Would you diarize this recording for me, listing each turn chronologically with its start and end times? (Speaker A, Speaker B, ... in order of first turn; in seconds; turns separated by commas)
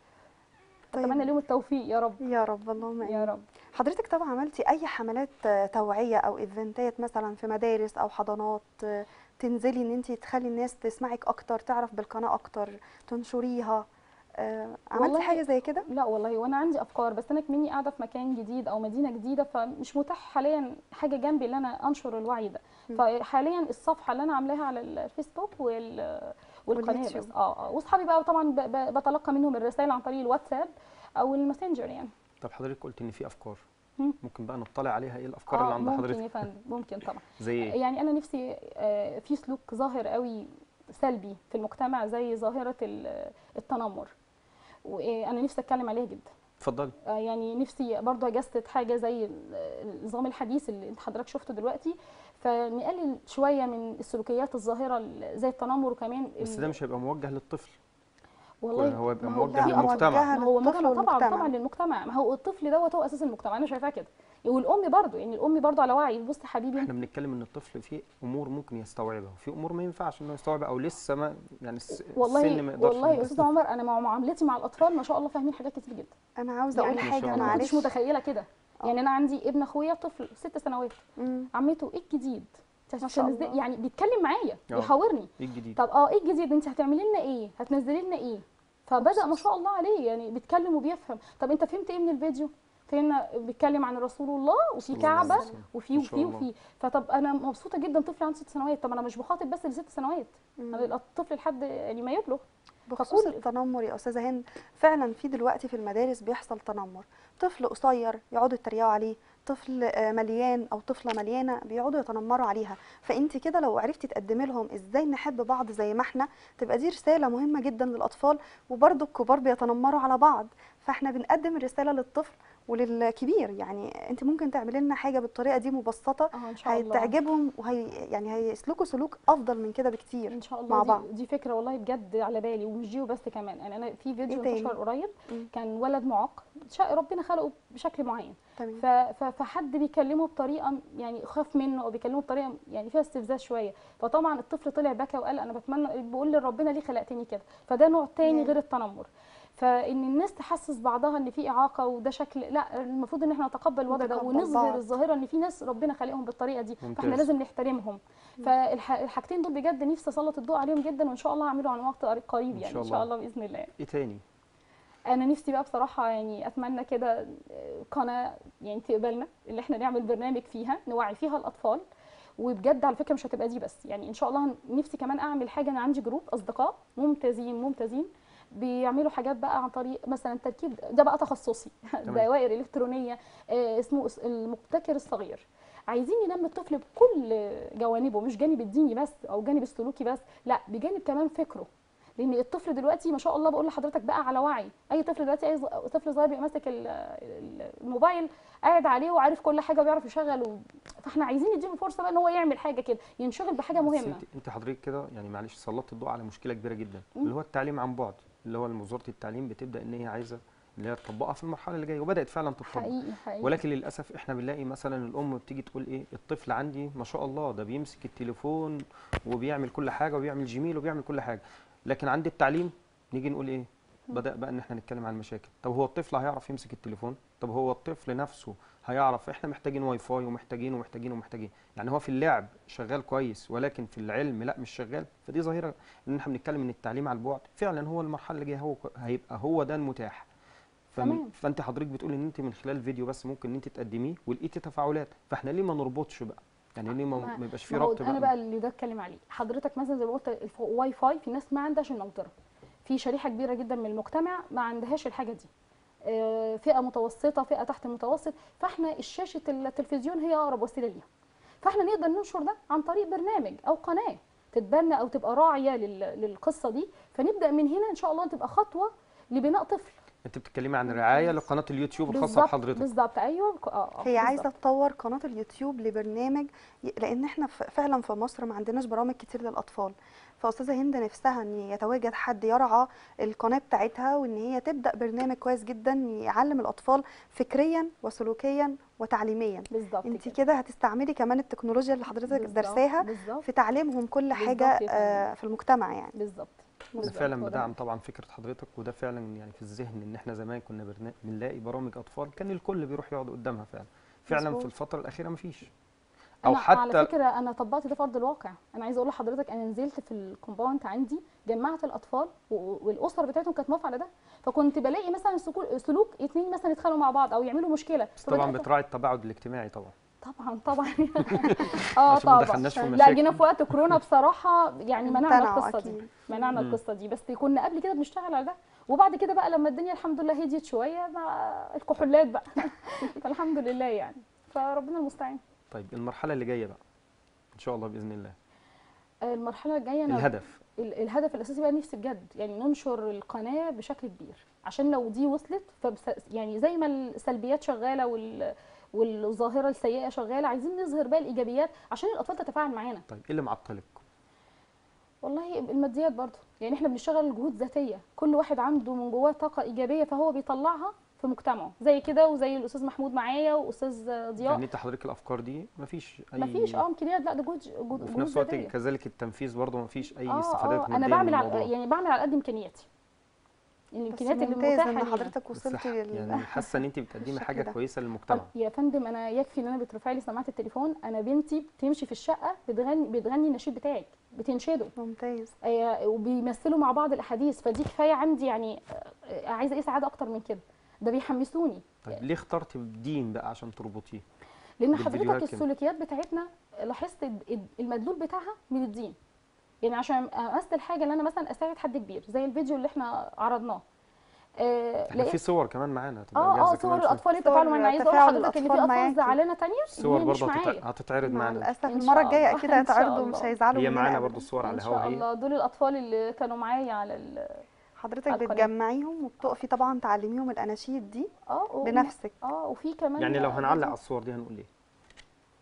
Speaker A: 0.9-2.2, Speaker B: 0.9-1.3, Speaker B: 2.2-13.8, Speaker A: 3.0-3.4, Speaker B: 14.4-15.9, Speaker A: 14.9-32.1, Speaker B: 26.7-27.3, Speaker C: 32.4-33.6, Speaker C: 34.2-36.3, Speaker A: 35.5-44.1, Speaker C: 37.4-37.7, Speaker A: 44.8-46.3, Speaker C: 46.6-46.9, Speaker A: 47.0-56.7, Speaker C: 56.4-57.8, Speaker A: 58.6-66.9, Speaker C: 58.7-60.3, Speaker B: 59.5-61.5, Speaker C: 66.8-73.5, Speaker A: 71.9-76.1, Speaker B: 76.4-77.9, Speaker A: 76.7-81.0, Speaker C: 76.9-77.7, Speaker B: 81.2-81.5, Speaker A: 81.5-102.4, Speaker B: 83.0-83.6, Speaker C: 84.7-85.8, Speaker B: 89.0-89.4, Speaker C: 94.9-96.5, Speaker B: 95.0-95.5, Speaker B: 100.6-100.9, Speaker B: 102.9-131.1, Speaker A: 103.0-103.4, Speaker A: 126.3-127.1, Speaker A: 130.3-163.7, Speaker B: 134.3-134.8, Speaker B: 138.6-138.8, Speaker B: 148.2-148.6, Speaker B: 153.9-154.8, Speaker C: 156.8-157.3, Speaker C: 162.5-163.1, Speaker C: 163.8-164.2, Speaker A: 165.1-171.8, Speaker A: 172.4-204.2, Speaker C: 203.8-240.3, Speaker A: 212.6-213.6, Speaker C: 240.9-248.3, Speaker A: 241.0-241.3, Speaker A: 247.2-252.3, Speaker A: 252.8-255.5, Speaker A: 256.1-261.1, Speaker A: 261.6-269.9, Speaker C: 270.2-272.9, Speaker A: 272.1-274.5, Speaker B: 274.0-296.1, Speaker A: 289.7-290.4, Speaker A: 292.3-293.4, Speaker A: 294.3-295.2, Speaker A: 296.1-297.7, Speaker C: 297.0-305.7, Speaker B: 304.3-304.7, Speaker C: 306.4-307.1, Speaker A: 306.4-318.7, Speaker C: 318.2-319.9, Speaker A: 320.2-335.4, Speaker C: 321.3-324.0, Speaker B: 322.7-323.1, Speaker B: 325.0-326.5, Speaker C: 326.5-326.8, Speaker C: 335.7-336.8, Speaker C: 337.5-338.4, Speaker A: 339.2-353.0, Speaker C: 340.1-340.6, Speaker C: 353.1-354.0, Speaker A: 355.2-364.6, Speaker C: 364.4-366.8, Speaker A: 366.4-368.7, Speaker C: 368.0-371.7, Speaker A: 370.2-372.9, Speaker A: 373.9-375.3, Speaker B: 374.1-376.7, Speaker C: 375.6-378.5, Speaker B: 377.2-377.7, Speaker A: 378.3-384.9, Speaker B: 385.0-385.5, Speaker A: 385.6-392.2, Speaker C: 392.1-394.2, Speaker A: 394.8-399.1, Speaker C: 394.9-395.6, Speaker A: 399.8-403.8, Speaker A: 404.6-405.4, Speaker C: 405.1-407.2, Speaker A: 406.3-410.8, Speaker B: 407.3-409.4, Speaker C: 409.9-412.6, Speaker B: 411.2-414.5, Speaker A: 411.9-413.5, Speaker C: 413.7-415.2, Speaker A: 414.6-417.6, Speaker B: 418.0-421.3, Speaker A: 418.3-418.7, Speaker A: 421.5-423.9, Speaker B: 421.8-422.4, Speaker C: 423.2-424.7